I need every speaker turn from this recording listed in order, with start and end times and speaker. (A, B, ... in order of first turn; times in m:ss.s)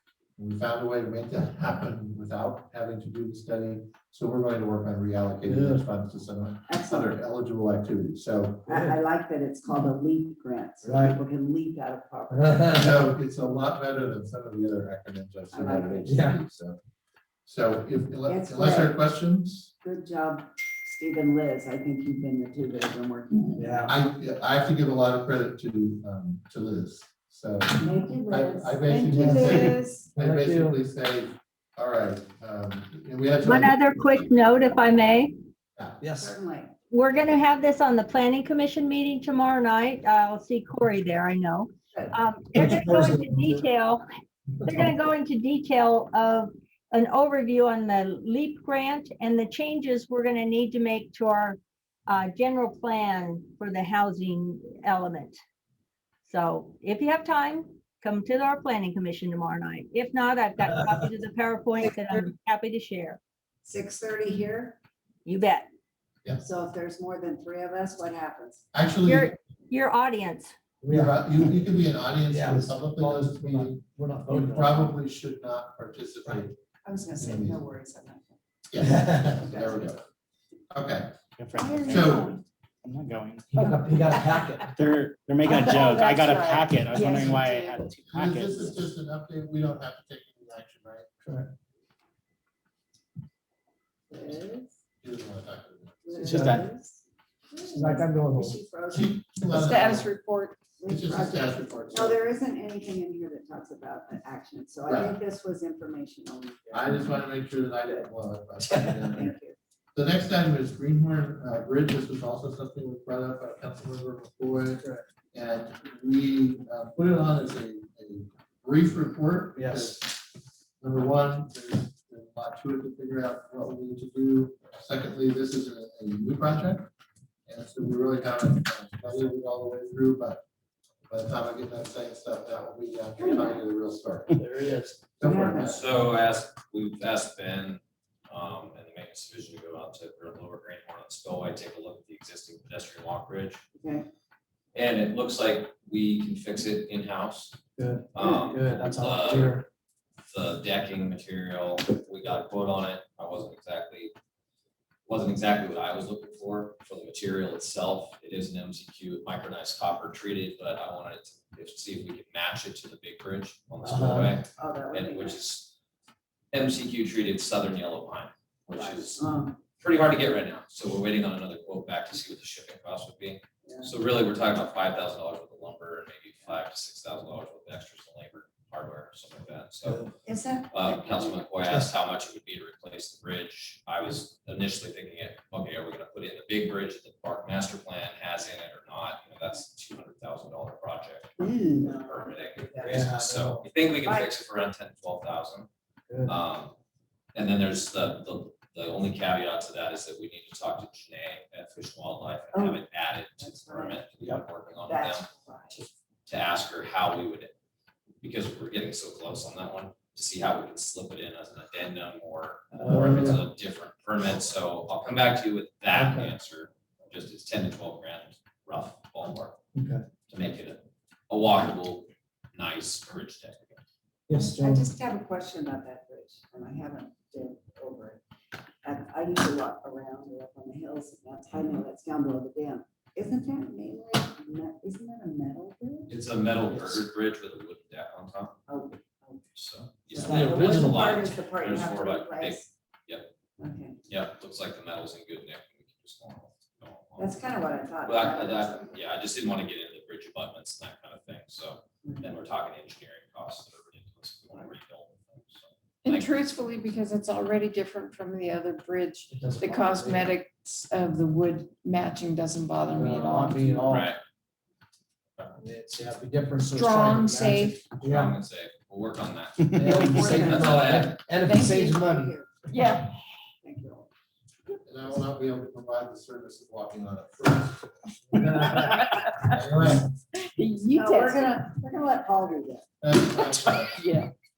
0:00.4-0:08.7 A
0:05.4-0:05.8 B
0:06.7-0:07.1 C
0:08.7-0:12.7 C
0:08.7-0:09.0 B
0:10.8-0:11.2 B
0:12.3-0:13.0 B
0:12.7-0:16.8 A
0:15.5-0:16.2 C
0:16.1-0:16.4 B
0:17.4-0:19.7 A
0:18.2-0:19.0 C
0:19.8-0:24.0 C
0:23.6-0:23.9 B
0:23.9-0:33.8 A
0:27.8-0:29.6 C
0:28.9-0:30.0 D
0:29.0-0:30.8 B
0:33.4-0:35.3 E
0:35.8-0:36.0 A
0:36.0-0:36.3 B
0:36.2-0:36.7 C
0:36.9-0:44.0 E
0:41.9-0:42.2 C
0:42.5-0:43.6 B
0:44.6-0:55.4 E
0:56.2-1:03.2 E
1:03.6-1:04.8 C
1:05.2-1:05.7 E
1:06.4-1:08.6 C
1:08.7-1:09.3 A
1:09.0-1:10.5 E
1:10.8-1:11.6 B
1:10.9-1:16.5 A
1:12.3-1:14.9 B
1:17.2-1:17.6 A
1:18.7-1:20.0 A
1:18.8-1:19.3 B
1:19.4-1:19.9 C
1:20.7-1:21.1 A
1:21.4-1:23.7 F
1:21.8-1:22.4 A
1:23.5-1:24.7 B
1:24.1-1:24.4 D
1:24.6-1:28.8 F
1:25.4-1:27.9 D
1:28.1-1:31.1 A
1:31.2-1:31.5 B
1:34.1-1:34.7 C
1:35.0-1:36.2 A
1:36.0-1:39.2 C
1:36.2-1:36.6 B
1:36.3-1:36.6 F
1:37.7-1:38.6 B
1:38.9-1:40.1 A
1:39.5-1:40.6 D
1:40.8-1:47.3 C
1:40.8-1:42.2 A
1:44.9-1:45.1 A
1:46.7-1:49.3 A
1:47.8-1:48.1 C
1:49.0-1:49.6 C
1:49.9-2:00.2 A
1:59.6-2:00.0 B
2:00.8-2:06.9 A
2:07.5-2:10.4 A
2:11.1-2:14.4 A
2:14.4-2:15.1 B
2:15.2-2:15.8 A
2:15.2-2:15.8 C
2:15.7-2:23.6 G
2:23.7-2:24.1 C
2:24.7-2:27.6 G
2:27.8-2:29.6 B
2:28.1-2:29.6 G
2:30.2-2:34.1 G
2:35.1-2:45.7 G
2:43.8-2:44.4 B
2:44.4-2:45.4 C
2:46.5-2:49.2 G
2:48.7-2:49.6 C
2:49.8-3:00.1 G
2:53.6-2:53.9 C
2:59.8-3:00.1 B
3:00.2-3:01.5 C
3:00.7-3:15.7 G
3:01.6-3:01.9 B
3:11.4-3:13.1 C
3:12.8-3:13.7 B
3:14.0-3:14.4 C
3:16.1-3:16.3 B
3:16.2-3:16.7 G
3:17.3-3:25.3 G
3:22.5-3:22.8 C
3:23.4-3:24.1 C
3:24.8-3:25.9 C
3:26.3-3:27.5 G
3:28.2-3:39.6 G
3:32.7-3:33.5 B
3:35.9-3:36.3 B
3:39.7-3:40.0 B
3:40.3-3:43.8 G
3:44.3-3:44.8 B
3:44.3-3:48.2 C
3:48.8-3:56.2 C
3:56.1-3:58.6 G
3:56.7-3:57.0 B
3:58.7-3:59.5 C
3:59.5-4:03.3 G
4:00.1-4:02.7 C
4:00.2-4:01.2 B
4:03.6-4:04.0 C
4:04.1-4:07.5 G
4:07.2-4:09.0 C
4:08.0-4:16.3 G
4:12.0-4:12.3 C
4:16.0-4:24.0 D
4:19.3-4:20.4 B
4:22.9-4:24.1 B
4:23.8-4:24.2 G
4:25.4-4:28.3 B
4:26.6-4:27.9 D
4:28.0-4:31.3 G
4:29.7-4:32.4 B
4:30.0-4:30.8 D
4:30.1-4:30.7 C
4:31.4-4:32.5 C
4:31.5-4:31.8 D
4:32.7-4:33.2 D
4:33.6-4:34.1 C
4:34.8-4:40.1 A
4:40.3-4:41.6 D
4:40.9-4:42.8 C
4:43.0-4:44.0 A
4:43.3-4:44.3 D